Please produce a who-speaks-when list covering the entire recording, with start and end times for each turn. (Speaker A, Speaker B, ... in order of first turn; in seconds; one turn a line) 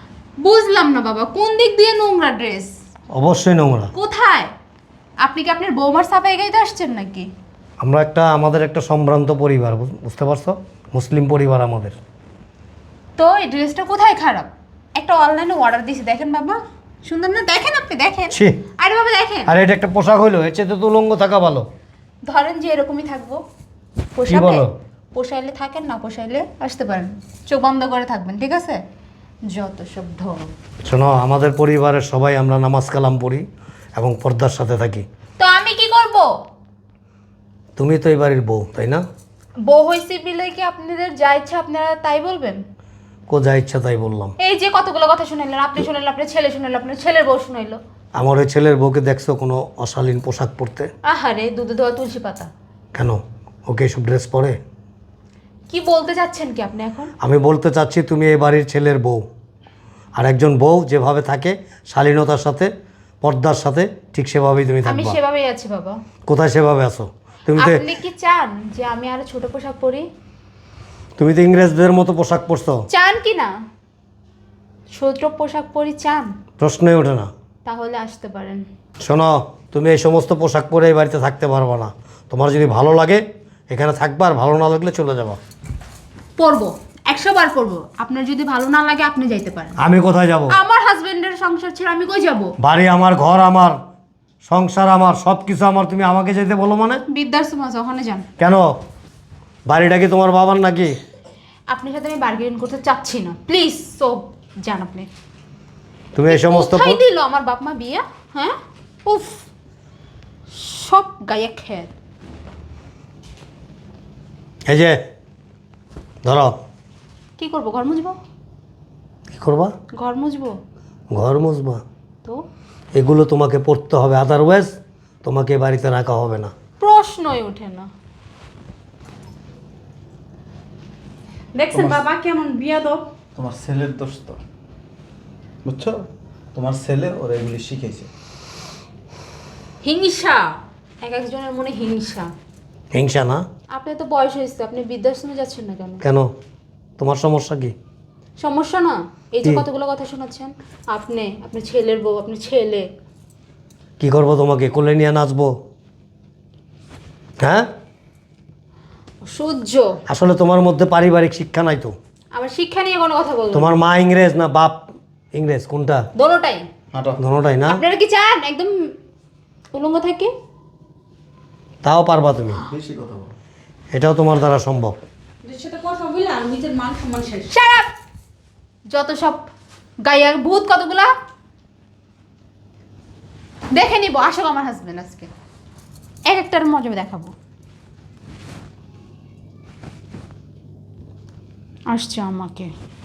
Speaker A: 0.4-2.7
Speaker B: 3.1-3.9
Speaker A: 3.9-4.5
Speaker A: 5.2-7.3
Speaker B: 7.8-11.9
Speaker A: 13.2-19.5
Speaker B: 18.3-18.6
Speaker B: 19.5-21.7
Speaker A: 22.3-23.4
Speaker A: 24.2-28.8
Speaker B: 24.3-24.7
Speaker A: 29.5-30.5
Speaker B: 30.9-35.0
Speaker A: 35.4-36.3
Speaker B: 37.8-39.0
Speaker A: 39.7-42.6
Speaker B: 43.3-44.4
Speaker A: 44.4-47.8
Speaker B: 48.2-50.9
Speaker A: 51.0-52.5
Speaker B: 53.0-54.6
Speaker A: 55.7-57.1
Speaker B: 57.2-59.2
Speaker B: 60.2-62.7
Speaker B: 63.2-65.2
Speaker A: 64.8-66.0
Speaker B: 66.3-67.8
Speaker A: 67.5-70.1
Speaker B: 71.2-72.8
Speaker A: 72.9-73.5
Speaker A: 74.9-76.3
Speaker B: 76.6-77.3
Speaker A: 77.7-78.7
Speaker B: 79.0-85.4
Speaker A: 86.4-89.8
Speaker B: 89.8-90.6
Speaker A: 90.5-92.5
Speaker B: 92.6-93.8
Speaker B: 94.5-97.0
Speaker A: 97.1-98.3
Speaker B: 98.4-98.7
Speaker B: 99.7-101.0
Speaker A: 101.7-105.1
Speaker B: 106.2-107.0
Speaker A: 106.3-109.5
Speaker A: 110.5-111.9
Speaker B: 114.7-115.0
Speaker B: 116.2-116.5
Speaker A: 117.4-118.2
Speaker B: 119.3-119.7
Speaker A: 119.9-120.6
Speaker B: 121.1-121.8
Speaker B: 123.0-126.5
Speaker A: 126.8-127.9
Speaker C: 131.6-133.0
Speaker D: 131.7-132.0
Speaker D: 133.3-134.4
Speaker D: 135.7-138.1
Speaker A: 139.8-140.5
Speaker A: 141.0-142.3
Speaker B: 142.9-143.4
Speaker A: 143.7-146.0
Speaker B: 146.0-146.3
Speaker B: 147.0-147.7
Speaker A: 148.4-152.9
Speaker B: 154.0-155.5
Speaker B: 157.4-157.7
Speaker A: 159.2-160.0
Speaker B: 160.1-161.9
Speaker A: 162.3-163.7
Speaker B: 163.5-166.0
Speaker A: 166.2-166.7
Speaker D: 166.9-167.2
Speaker B: 167.2-167.8
Speaker A: 167.7-168.9
Speaker A: 169.7-170.3
Speaker B: 171.8-172.6
Speaker D: 172.7-173.3
Speaker B: 173.9-175.0
Speaker C: 175.4-177.5
Speaker A: 177.5-177.9
Speaker A: 178.9-179.4
Speaker A: 180.1-181.1
Speaker A: 183.8-185.3
Speaker A: 186.3-187.3
Speaker A: 191.9-192.7